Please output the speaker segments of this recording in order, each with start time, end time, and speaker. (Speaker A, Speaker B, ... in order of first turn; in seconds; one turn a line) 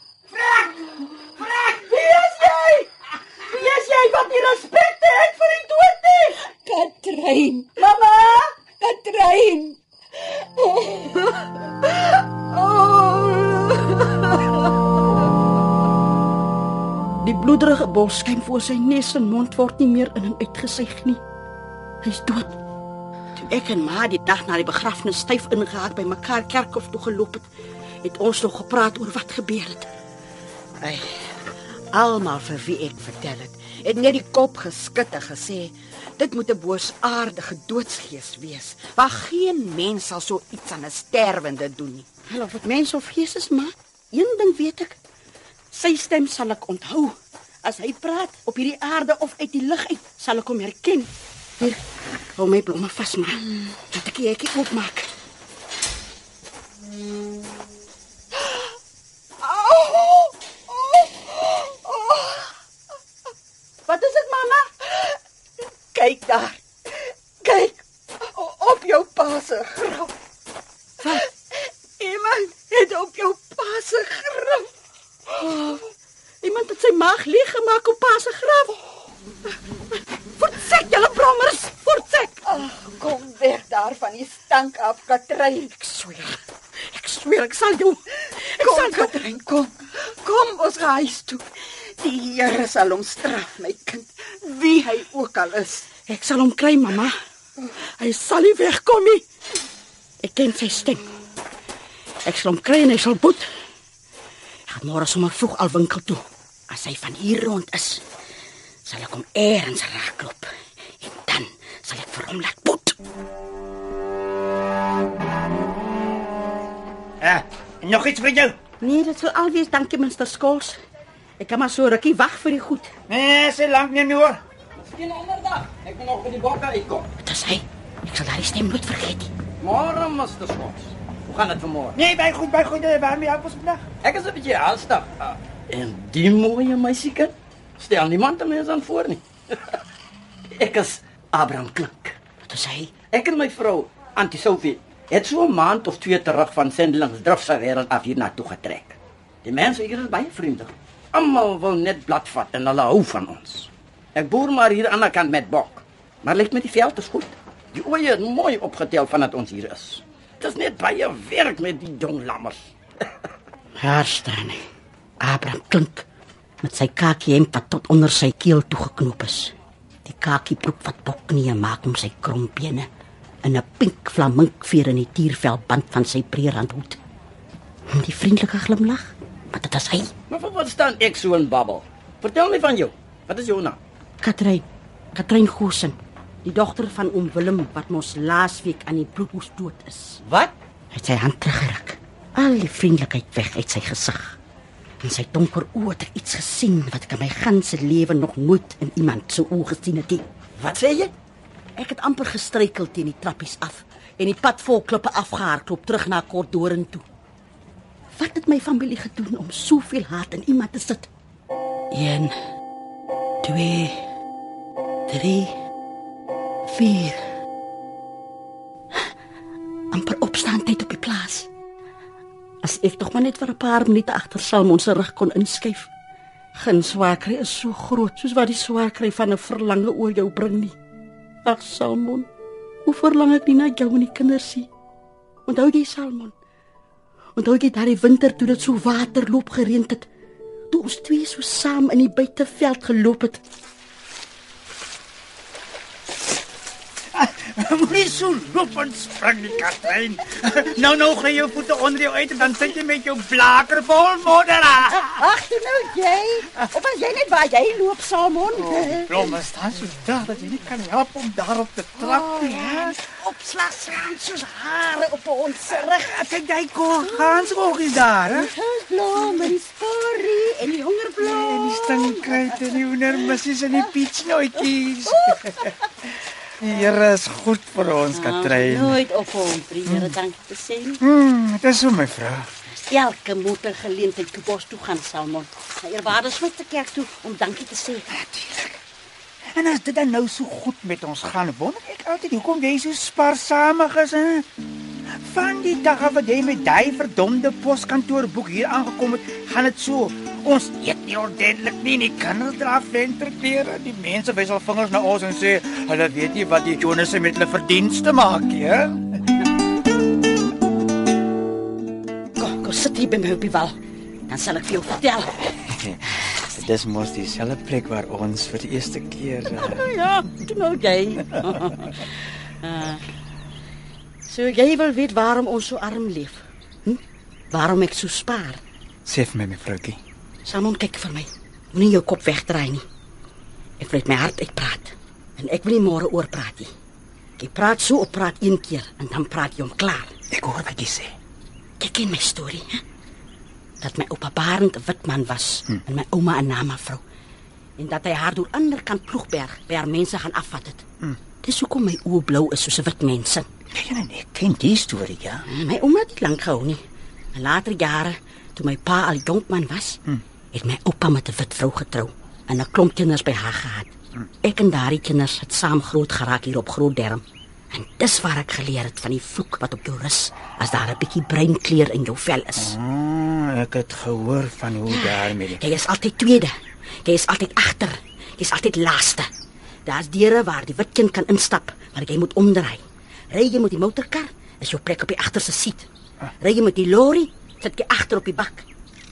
Speaker A: 0.3-1.9
Speaker B: 1.6-14.7
Speaker B: 17.2-21.2
Speaker B: 22.0-22.6
Speaker B: 23.4-27.5
Speaker B: 28.0-29.9
Speaker B: 30.8-31.3
Speaker C: 31.9-42.1
Speaker B: 32.1-33.4
Speaker B: 42.1-45.0
Speaker B: 45.7-51.8
Speaker B: 52.4-55.1
Speaker B: 59.4-62.5
Speaker B: 63.9-65.2
Speaker B: 65.9-66.6
Speaker B: 67.4-70.1
Speaker B: 71.0-71.3
Speaker B: 72.0-74.7
Speaker B: 75.3-75.9
Speaker B: 76.4-78.8
Speaker B: 80.4-82.5
Speaker C: 82.5-86.4
Speaker B: 86.8-89.4
Speaker C: 88.8-91.4
Speaker C: 92.0-95.8
Speaker B: 95.9-97.2
Speaker B: 97.8-99.2
Speaker B: 100.2-101.1
Speaker B: 102.2-103.5
Speaker B: 104.7-108.0
Speaker B: 108.8-110.5
Speaker B: 111.0-113.0
Speaker D: 117.2-118.5
Speaker B: 118.8-120.8
Speaker B: 121.4-122.9
Speaker D: 123.1-124.4
Speaker A: 124.8-127.1
Speaker B: 127.2-129.3
Speaker A: 129.6-132.0
Speaker D: 131.9-133.8
Speaker A: 134.0-139.8
Speaker A: 140.5-142.2
Speaker B: 142.4-142.9
Speaker A: 143.1-162.7
Speaker B: 163.8-164.7
Speaker B: 165.2-166.1
Speaker B: 166.6-169.5
Speaker B: 170.1-172.9
Speaker B: 173.4-177.0
Speaker B: 177.9-180.1
Speaker A: 180.3-183.8
Speaker B: 184.2-190.2
Speaker A: 190.2-190.5
Speaker B: 190.9-194.4
Speaker B: 195.0-201.1
Speaker A: 200.7-201.1
Speaker B: 201.8-207.1
Speaker B: 208.2-211.1
Speaker B: 211.9-212.4
Speaker B: 213.4-214.1
Speaker B: 215.1-215.6
Speaker B: 216.7-217.2
Speaker B: 219.9-221.5
Speaker B: 222.6-225.9
Speaker B: 226.6-230.8
Speaker B: 231.4-232.3
Speaker B: 232.8-234.7
Speaker B: 235.5-236.3
Speaker B: 237.4-240.1
Speaker B: 240.7-243.4
Speaker D: 247.1-255.2
Speaker B: 254.9-259.3
Speaker D: 258.7-262.9
Speaker B: 262.0-266.3
Speaker D: 265.8-268.5
Speaker B: 267.0-273.9
Speaker D: 271.2-275.7
Speaker B: 275.1-275.9
Speaker D: 276.6-279.0
Speaker B: 278.1-281.0
Speaker D: 279.9-280.1
Speaker D: 281.0-282.5
Speaker B: 282.7-288.1
Speaker D: 288.1-288.8
Speaker D: 289.5-294.5
Speaker D: 295.2-309.2
Speaker B: 312.4-313.8
Speaker B: 314.3-315.6
Speaker D: 315.7-319.9
Speaker B: 319.5-323.1
Speaker B: 324.3-328.6
Speaker D: 329.1-330.0
Speaker B: 330.4-332.8
Speaker B: 333.8-336.7
Speaker B: 337.4-340.1
Speaker D: 340.3-341.1
Speaker B: 341.8-342.8
Speaker B: 343.8-347.0
Speaker B: 347.8-350.8
Speaker B: 351.4-353.5
Speaker D: 353.7-355.4
Speaker B: 355.5-356.8
Speaker B: 357.3-360.0
Speaker B: 360.5-363.9
Speaker B: 364.4-372.8
Speaker D: 372.6-375.6
Speaker B: 374.9-379.3
Speaker B: 379.9-385.9
Speaker B: 386.4-388.6